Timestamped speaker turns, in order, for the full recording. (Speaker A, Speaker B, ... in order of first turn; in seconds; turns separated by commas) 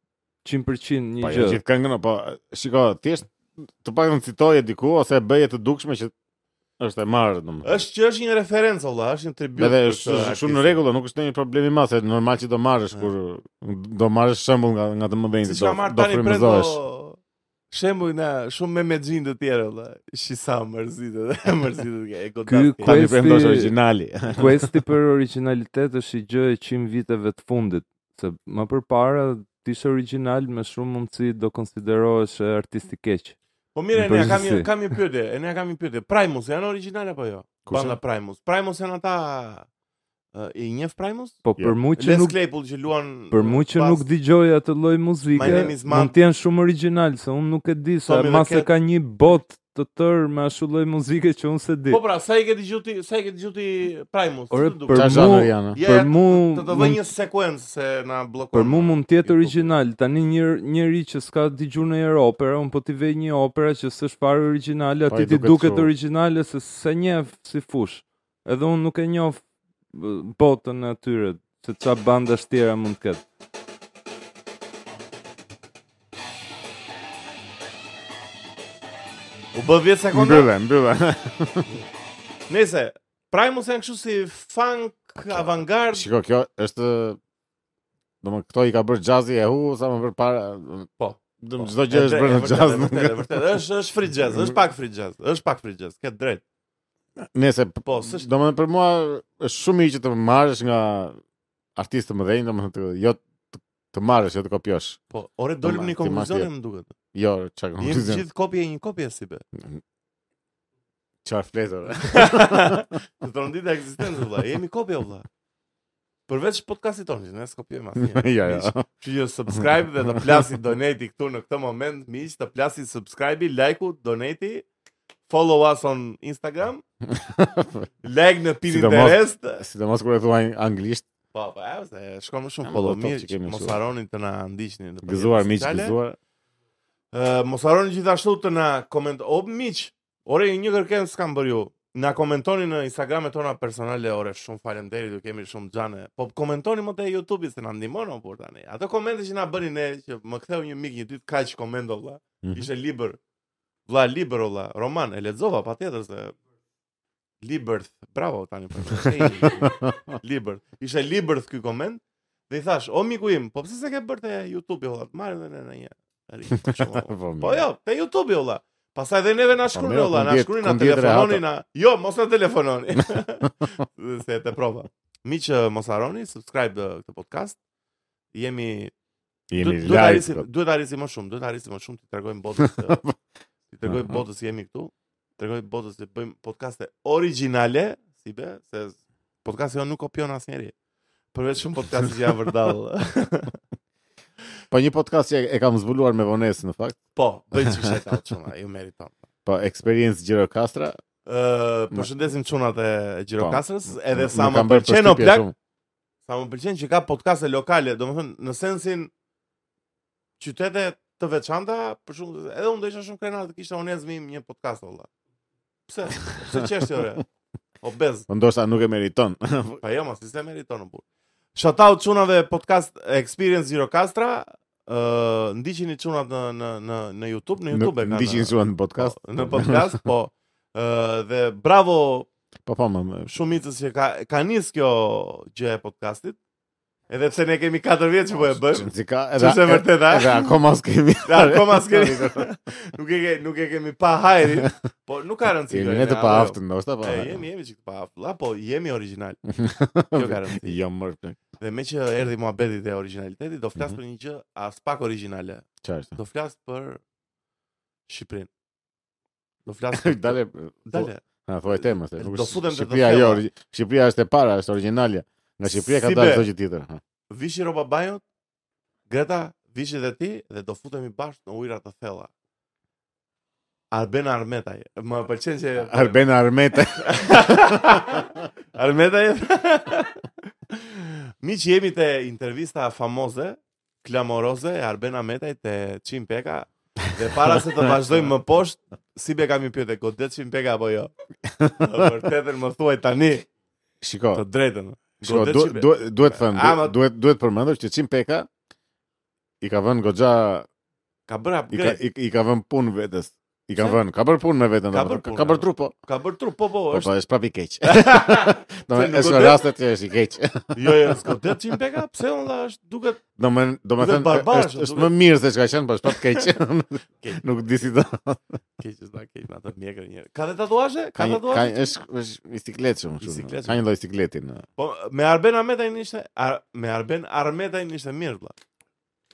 Speaker A: 0.4-1.6, Speaker B: 1.2-6.1, Speaker B: 6.8-7.8, Speaker C: 7.6-10.8, Speaker B: 9.6-16.8, Speaker C: 15.4-17.2, Speaker C: 17.7-23.1, Speaker A: 22.5-23.7, Speaker B: 22.8-24.7, Speaker A: 24.4-33.4, Speaker C: 33.8-39.7, Speaker A: 33.9-34.7, Speaker B: 37.7-38.0, Speaker C: 40.3-41.4, Speaker A: 41.5-42.4, Speaker C: 42.0-44.1, Speaker A: 43.3-52.0, Speaker C: 45.3-46.1, Speaker C: 48.1-48.7, Speaker C: 51.9-59.7, Speaker A: 54.5-57.0, Speaker B: 54.9-55.8, Speaker A: 58.5-73.2, Speaker B: 65.1-65.9, Speaker C: 79.5-80.5, Speaker B: 80.1-81.7, Speaker C: 82.5-86.1, Speaker B: 85.2-87.2, Speaker B: 88.2-90.9, Speaker C: 91.0-96.4, Speaker B: 91.4-93.2, Speaker B: 97.2-101.2, Speaker C: 97.9-98.3, Speaker B: 101.8-105.0, Speaker C: 105.1-107.0, Speaker B: 105.6-106.5, Speaker B: 107.1-108.2, Speaker C: 107.8-109.4, Speaker B: 111.2-112.9, Speaker C: 112.0-115.3, Speaker C: 116.3-124.7, Speaker B: 118.0-118.8, Speaker B: 119.5-120.5, Speaker C: 125.3-126.8, Speaker B: 127.1-127.9, Speaker C: 128.0-129.6, Speaker B: 128.7-131.1, Speaker C: 131.3-136.0, Speaker B: 132.7-133.8, Speaker B: 135.0-136.2, Speaker C: 137.1-153.2, Speaker B: 152.4-152.7, Speaker C: 153.9-156.3, Speaker C: 157.4-177.6, Speaker B: 159.2-160.0, Speaker B: 166.6-167.7, Speaker B: 169.7-171.4, Speaker C: 178.3-178.9, Speaker B: 179.5-180.5, Speaker C: 179.6-183.0, Speaker B: 182.6-183.2, Speaker C: 183.7-190.7, Speaker B: 183.9-184.2, Speaker C: 191.3-193.6, Speaker B: 194.7-197.0, Speaker C: 197.2-199.2, Speaker B: 197.6-198.0, Speaker B: 199.5-201.0, Speaker C: 201.3-205.5, Speaker B: 203.4-205.5, Speaker C: 206.3-209.1, Speaker C: 210.4-215.1, Speaker C: 215.9-217.2, Speaker C: 217.8-218.3, Speaker B: 218.3-219.8, Speaker C: 219.8-221.0, Speaker C: 221.6-232.3, Speaker B: 227.7-230.0, Speaker B: 232.7-233.3, Speaker C: 233.3-236.4, Speaker C: 237.1-240.5, Speaker B: 238.4-242.5, Speaker C: 241.2-249.4, Speaker B: 245.7-247.4, Speaker B: 249.5-251.4, Speaker C: 250.1-250.8, Speaker C: 251.6-257.0, Speaker B: 255.8-256.2, Speaker C: 258.1-258.5, Speaker C: 259.7-261.2, Speaker B: 259.9-267.0, Speaker C: 261.8-263.4, Speaker C: 265.6-266.5, Speaker C: 267.3-268.2, Speaker C: 269.1-272.3, Speaker C: 273.9-276.2, Speaker B: 275.8-278.2, Speaker C: 276.8-291.1, Speaker B: 291.4-292.1, Speaker C: 291.8-293.5, Speaker B: 294.0-294.4, Speaker C: 294.3-297.0, Speaker B: 295.2-298.5, Speaker B: 299.6-300.7, Speaker C: 301.3-302.0, Speaker B: 301.7-305.9, Speaker C: 304.9-307.1, Speaker B: 306.9-311.3, Speaker C: 307.8-309.6, Speaker C: 310.8-313.2, Speaker B: 313.4-318.4, Speaker C: 314.0-315.1, Speaker C: 316.1-316.4, Speaker C: 318.8-321.9, Speaker B: 321.2-324.6, Speaker C: 323.2-323.8, Speaker C: 324.8-328.5